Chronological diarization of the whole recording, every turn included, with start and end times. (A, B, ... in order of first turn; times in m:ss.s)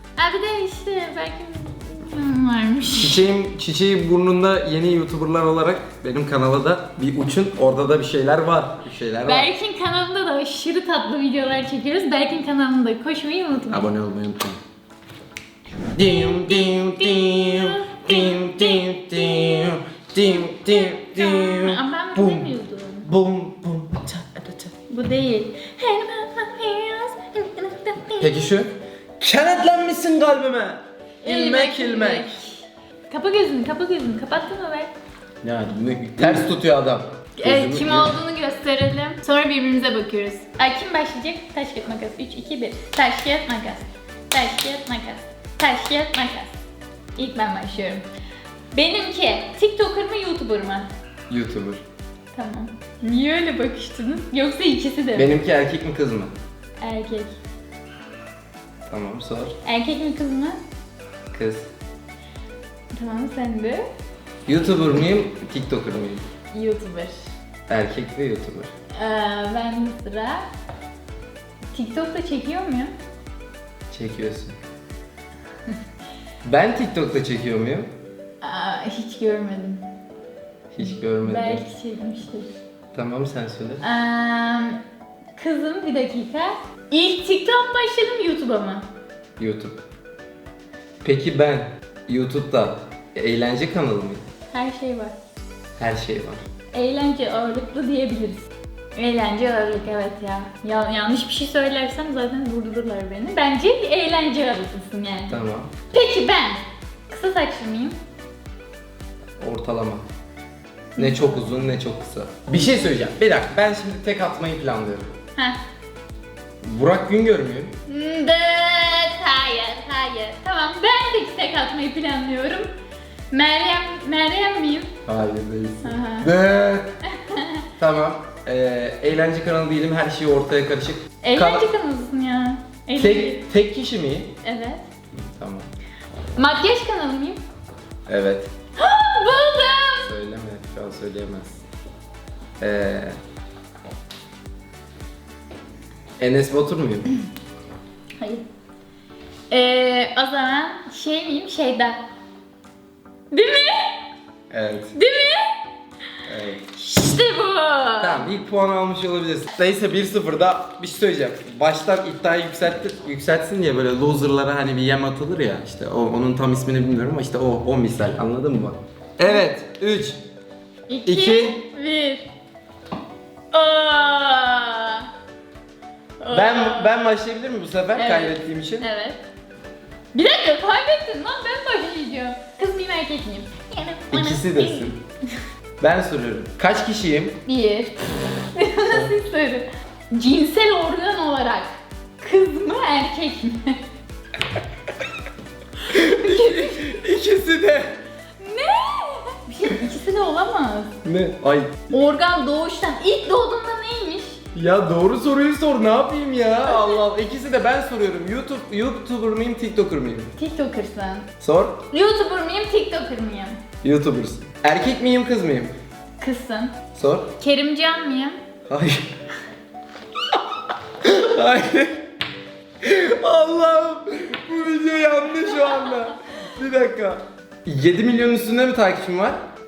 0:00.2-0:03.2 A
0:02.9-0:09.5 B
0:09.2-0:13.9 A
0:13.7-0:14.6 B
0:15.9-0:24.7 B
0:16.1-0:19.7 A
0:20.2-0:23.1 A
0:24.9-0:28.3 A
0:28.2-0:32.4 B
0:31.2-0:34.9 A
0:35.4-0:38.2 B
0:37.4-0:46.6 A
0:47.2-0:48.0 A
0:48.7-0:50.9 A
0:51.3-0:51.8 B
0:52.3-0:55.3 A
0:55.2-0:56.3 B
0:56.8-0:57.3 A
0:58.9-0:59.5 B
0:59.6-1:00.6 A
1:01.3-1:01.7 B
1:02.9-1:03.8 A
1:04.4-1:06.2 B
1:06.5-1:07.2 A
1:07.7-1:08.7 B
1:08.9-1:10.4 A
1:11.7-1:12.9 A
1:13.9-1:14.6 B
1:16.4-1:17.9 B
1:18.4-1:19.8 A
1:20.7-1:21.6 B
1:21.2-1:22.5 A
1:22.9-1:23.8 B
1:23.8-1:24.8 A
1:25.4-1:28.8 A
1:29.4-1:29.8 B
1:31.0-1:34.2 B
1:34.5-1:35.1 A
1:35.8-1:36.4 B
1:36.7-1:45.4 A
1:45.3-1:45.7 B
1:45.9-1:48.0 A
1:49.4-1:50.0 B
1:51.0-1:55.1 B
1:51.0-1:51.6 A
1:56.6-1:57.7 B
1:57.9-2:02.7 A
2:03.3-2:04.9 A
2:05.0-2:06.9 B
2:05.8-2:06.3 A
2:07.1-2:07.6 A
2:07.8-2:11.6 B
2:11.2-2:13.4 A
2:13.0-2:14.3 B
2:14.4-2:14.8 A
2:15.4-2:15.7 B
2:16.4-2:17.4 A
2:18.1-2:18.5 B
2:18.8-2:20.1 A
2:20.0-2:21.6 B
2:22.6-2:23.1 B
2:26.2-2:27.1 B
2:28.2-2:28.4 A
2:29.5-2:32.0 A
2:33.3-2:34.0 A
2:34.5-2:34.9 B
2:34.9-2:35.6 A
2:36.2-2:36.6 B
2:36.7-2:38.3 A
2:38.0-2:50.2 B
2:50.9-2:52.2 A
2:51.0-2:51.6 B
2:53.5-2:55.1 A
2:56.2-2:57.0 A
2:56.3-2:58.9 B
2:57.9-2:59.2 A
3:00.1-3:05.0 A
3:04.1-3:05.0 B
3:05.8-3:07.4 B
3:07.4-3:13.8 A
3:15.8-3:16.9 A
3:15.9-3:18.0 B
3:18.4-3:21.0 A
3:21.0-3:21.7 B
3:21.9-3:24.4 A
3:24.5-3:30.3 B
3:26.7-3:27.0 A
3:30.4-3:31.3 A
3:31.4-3:31.8 B
3:31.9-3:33.6 A
3:33.8-3:35.7 B
3:36.2-3:36.8 A
3:36.9-3:37.3 B
3:37.4-3:38.4 A
3:38.7-3:39.1 B
3:41.0-3:42.0 B
3:42.8-3:49.4 B